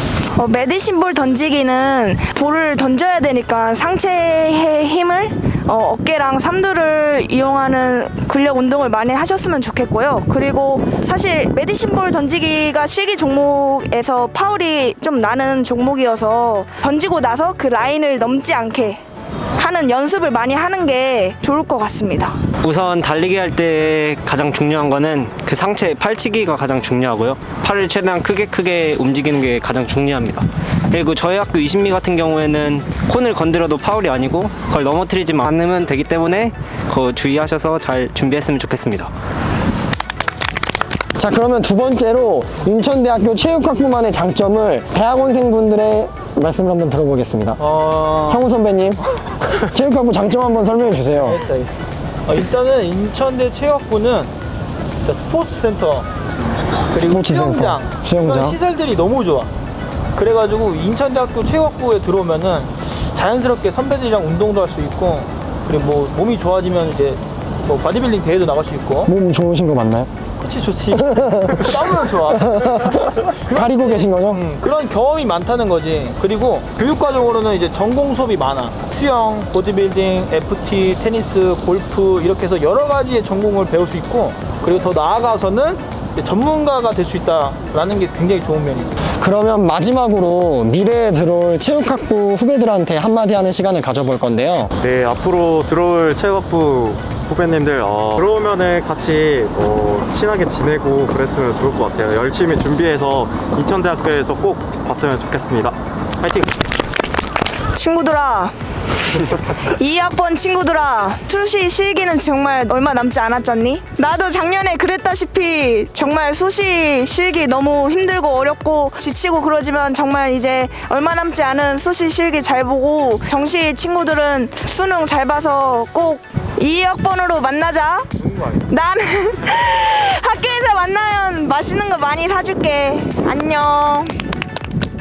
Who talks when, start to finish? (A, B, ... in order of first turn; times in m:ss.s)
0:00.4-0:19.0 A
0:19.6-0:22.4 A
0:22.6-0:39.1 B
0:41.2-0:47.6 C
0:47.6-0:48.4 D
0:48.3-0:49.0 C
0:49.6-0:51.4 C
0:51.3-0:51.7 D
0:52.3-0:54.3 D
0:55.0-0:56.1 D
0:56.9-0:59.5 D
0:57.1-0:58.6 C
1:00.1-1:09.1 D
1:09.0-1:10.1 C
1:10.4-1:12.9 D
1:11.2-1:11.7 C
1:12.3-1:14.4 C
1:13.5-1:28.9 D
1:29.2-1:34.7 C
1:34.8-1:46.5 E
1:47.7-1:48.5 A
1:49.8-2:14.3 A